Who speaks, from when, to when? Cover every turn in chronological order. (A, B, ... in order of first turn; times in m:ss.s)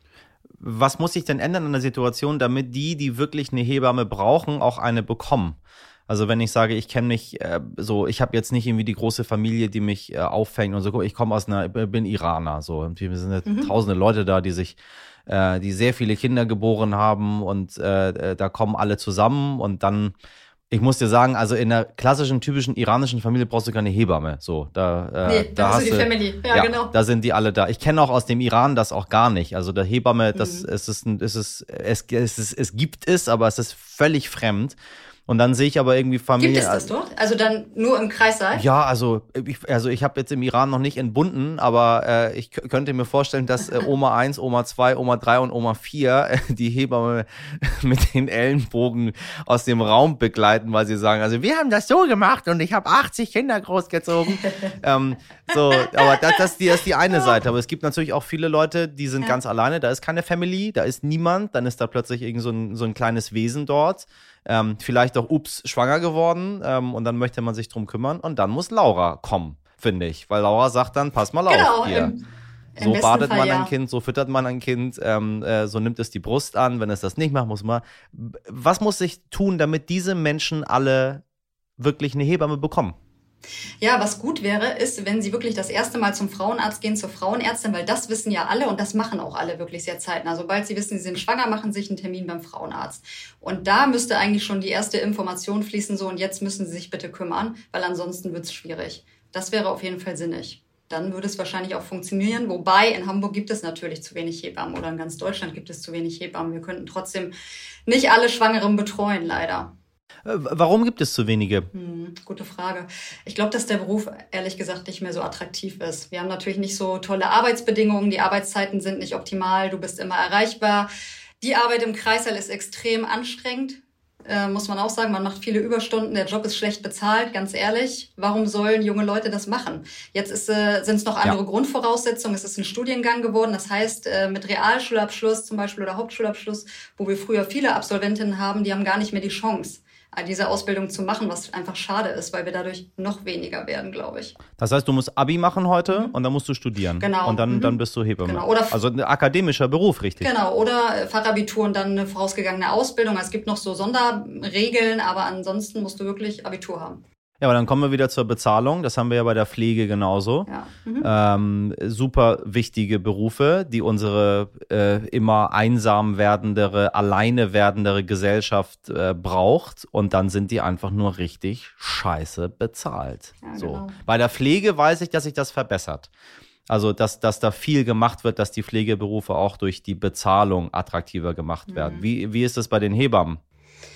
0:00.6-0:20.1 A
0:13.4-0:13.7 B
0:20.7-0:34.8 A
0:25.2-0:26.9 B
0:30.3-0:30.7 B
0:35.3-0:36.9 A
0:36.4-0:38.6 B
0:38.5-1:12.1 A
0:54.3-0:54.7 B
0:55.8-0:56.4 B
1:11.5-1:12.2 B
1:12.8-1:13.7 B
1:12.8-1:21.2 A
1:21.8-1:23.0 A
1:23.8-1:47.3 B
1:47.8-1:49.7 B
1:50.2-1:51.7 A
1:51.7-2:00.9 B
2:01.4-2:24.4 B
2:24.6-2:30.3 A
2:27.0-2:28.8 B
2:30.2-2:37.0 B
2:37.4-2:40.5 A
2:40.5-2:41.1 B
2:41.0-2:56.1 A
2:53.4-2:54.0 B
2:56.7-3:03.4 A
3:01.7-3:02.0 B